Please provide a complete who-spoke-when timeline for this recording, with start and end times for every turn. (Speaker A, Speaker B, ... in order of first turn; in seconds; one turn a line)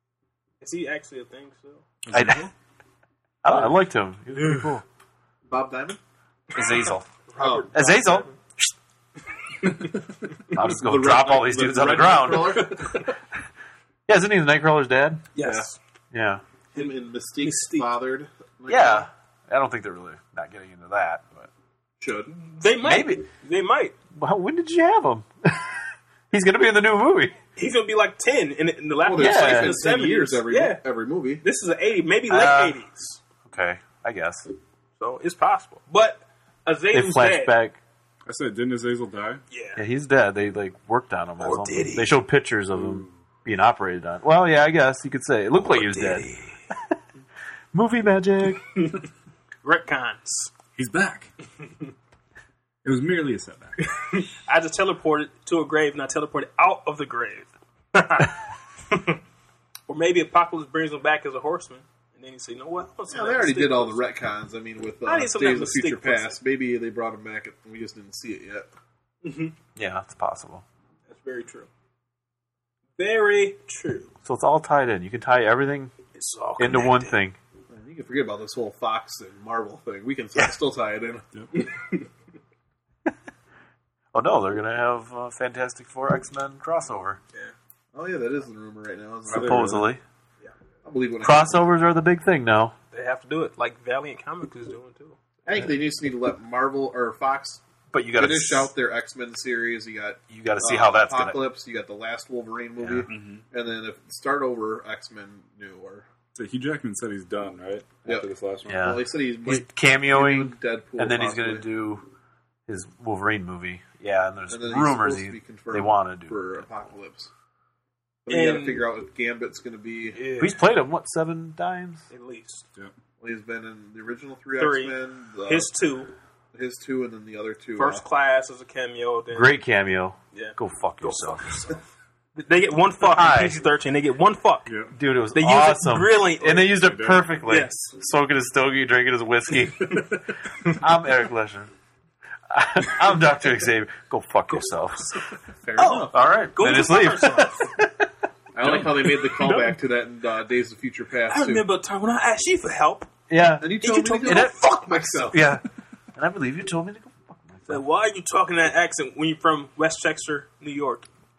Speaker A: 0.6-1.8
Speaker B: 2.0-2.5
Speaker C: 2.1-2.5
Speaker C: 3.4-4.8
Speaker D: 5.5-6.0
Speaker C: 6.5-7.1
Speaker A: 7.3-8.3
Speaker D: 7.4-7.7
Speaker C: 7.7-8.7
Speaker A: 9.6-9.9
Speaker C: 10.5-12.8
Speaker D: 10.6-13.0
Speaker C: 14.1-15.3
Speaker A: 15.3-15.8
Speaker D: 15.4-15.7
Speaker C: 16.1-16.4
Speaker D: 16.7-19.1
Speaker A: 16.8-17.9
Speaker C: 18.7-21.5
Speaker D: 22.0-22.3
Speaker A: 22.3-23.9
Speaker C: 22.8-23.2
Speaker C: 24.1-27.4
Speaker A: 27.6-30.8
Speaker D: 29.0-31.4
Speaker C: 29.2-29.8
Speaker A: 31.4-33.2
Speaker C: 32.3-32.8
Speaker C: 33.5-34.5
Speaker A: 35.0-37.5
Speaker C: 36.9-37.8
Speaker B: 38.3-39.4
Speaker A: 39.5-39.8
Speaker C: 39.8-46.9
Speaker A: 41.4-42.2
Speaker B: 42.7-43.1
Speaker A: 45.7-46.6
Speaker C: 47.7-48.7
Speaker A: 48.8-49.0
Speaker A: 49.6-50.5
Speaker B: 50.8-51.3
Speaker B: 52.8-54.0
Speaker A: 53.9-58.4
Speaker A: 58.9-59.2
Speaker A: 59.9-64.1
Speaker D: 63.1-68.7
Speaker A: 65.1-66.4
Speaker A: 69.2-69.5
Speaker C: 69.8-70.6
Speaker A: 71.1-71.7
Speaker A: 73.0-74.1
Speaker C: 74.2-75.9
Speaker A: 76.2-77.2
Speaker C: 76.6-77.4
Speaker D: 77.7-81.2
Speaker B: 81.3-81.6
Speaker A: 81.5-82.1
Speaker C: 84.1-87.2
Speaker D: 87.9-89.8
Speaker B: 89.3-89.9
Speaker C: 89.3-90.0
Speaker D: 90.8-91.7
Speaker C: 91.2-92.7
Speaker A: 92.9-95.2
Speaker D: 95.5-97.6
Speaker C: 97.9-98.7
Speaker D: 98.2-106.1
Speaker C: 100.3-101.4
Speaker C: 102.8-103.1
Speaker B: 103.1-103.4
Speaker B: 106.3-109.0
Speaker D: 108.0-111.7
Speaker C: 108.7-112.1
Speaker C: 112.7-116.5
Speaker D: 114.5-117.3
Speaker D: 118.2-120.2
Speaker A: 118.3-118.9
Speaker A: 120.1-120.6
Speaker C: 120.4-122.1
Speaker A: 122.1-122.7
Speaker D: 123.2-125.7
Speaker A: 124.6-126.1
Speaker D: 126.5-128.1
Speaker A: 127.8-129.5
Speaker C: 129.3-131.7
Speaker A: 130.3-131.8
Speaker A: 132.4-134.7
Speaker C: 133.0-133.6
Speaker B: 134.7-134.9
Speaker C: 134.9-141.7
Speaker A: 135.3-136.8
Speaker B: 136.6-137.3
Speaker A: 137.5-137.9
Speaker C: 142.5-145.2
Speaker D: 145.7-146.2
Speaker A: 145.8-147.7
Speaker C: 146.1-148.0
Speaker D: 148.5-151.7
Speaker A: 149.4-149.8
Speaker A: 151.3-153.1
Speaker C: 153.3-154.6
Speaker D: 153.6-155.5
Speaker A: 153.8-154.9
Speaker C: 155.3-155.6
Speaker C: 156.2-157.8
Speaker A: 157.7-161.1